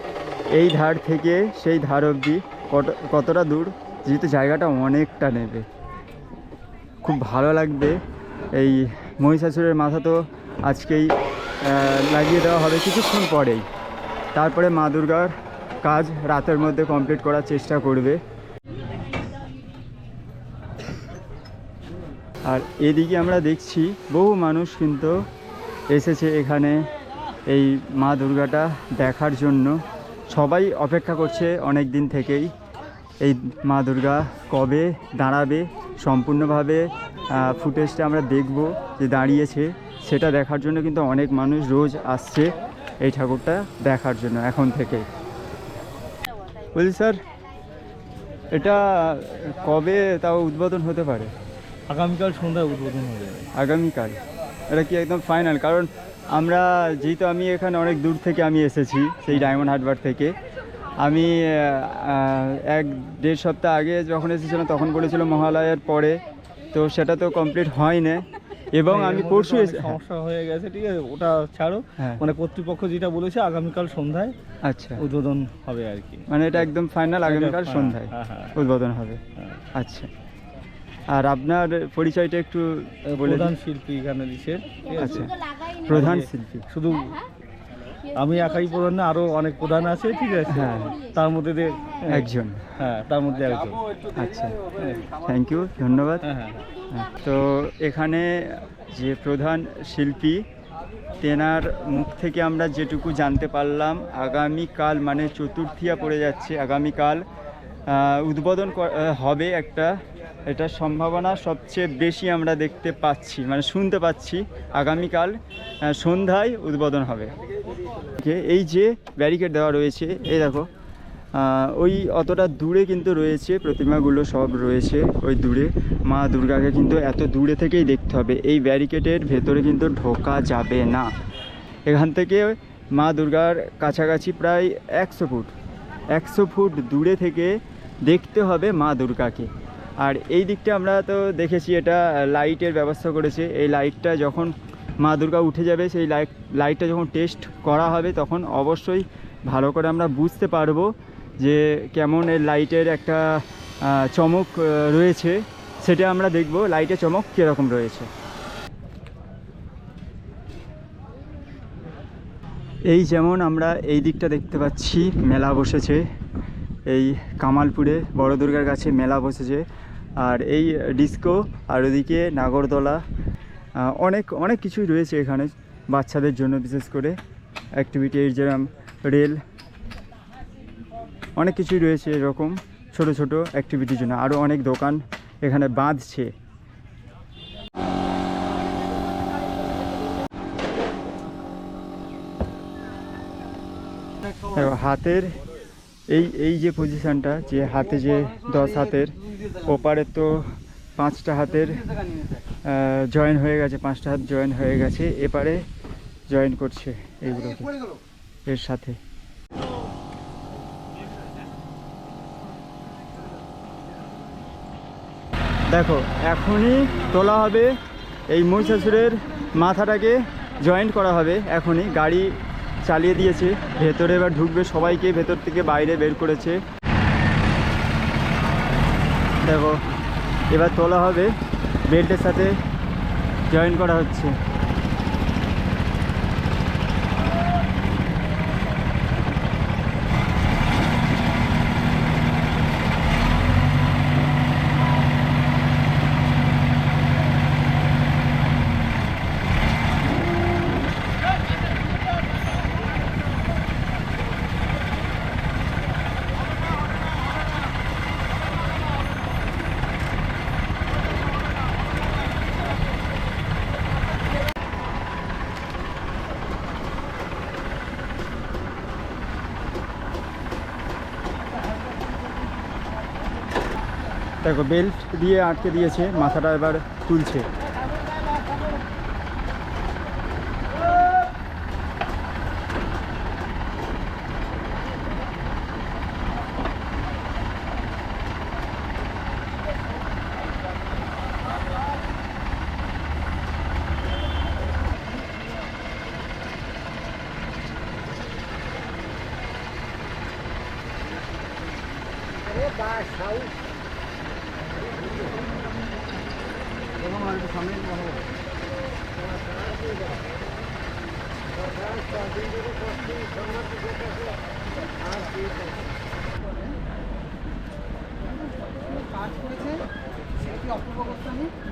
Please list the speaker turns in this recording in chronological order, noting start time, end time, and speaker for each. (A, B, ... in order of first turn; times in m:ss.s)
0:00.5-0:05.7 A
0:07.0-0:08.0 A
0:08.5-0:13.7 A
0:14.3-0:18.2 A
0:22.4-0:25.2 A
0:25.9-0:26.8 A
0:27.5-0:32.5 A
0:33.2-0:45.1 A
0:46.7-0:47.2 A
0:48.5-0:51.3 A
0:51.9-0:53.5 B
0:53.6-0:54.2 A
0:54.7-1:00.3 A
1:01.0-1:06.2 A
1:06.7-1:10.0 A
1:08.9-1:14.3 B
1:14.6-1:15.0 A
1:15.0-1:16.2 B
1:16.3-1:19.2 A
1:17.2-1:18.5 B
1:19.7-1:20.1 A
1:21.1-1:23.5 A
1:23.1-1:25.3 B
1:25.0-1:25.3 A
1:25.9-1:26.6 A
1:25.9-1:27.2 B
1:28.1-1:32.3 B
1:30.5-1:30.9 A
1:32.1-1:32.7 A
1:32.8-1:33.8 B
1:34.2-1:34.6 A
1:35.2-1:36.2 A
1:36.2-1:36.6 B
1:36.9-1:40.4 A
1:41.2-1:47.2 A
1:47.9-1:49.9 A
1:50.5-1:57.3 A
1:58.2-2:00.7 A
2:01.3-2:11.1 A
2:11.9-2:15.5 A
2:16.1-2:19.5 A
2:20.0-2:33.2 A
2:33.8-2:38.1 A
2:42.8-2:46.0 A
2:46.9-2:49.6 A
2:50.2-2:53.0 A
2:53.8-2:57.2 A
2:57.8-2:59.4 A
3:01.4-3:06.3 A
3:14.5-3:15.3 A
3:16.1-3:21.8 A
3:22.6-3:25.6 A
3:26.3-3:27.8 A
3:28.5-3:29.0 A
3:35.7-3:37.7 A
3:38.3-3:42.3 A
3:42.8-3:46.6 A
3:49.4-3:49.8 A
3:50.5-3:51.3 A
3:51.9-3:52.6 A
3:53.5-3:54.3 A
4:34.4-4:37.5 A
5:18.3-5:19.8 C
5:20.4-5:21.5 C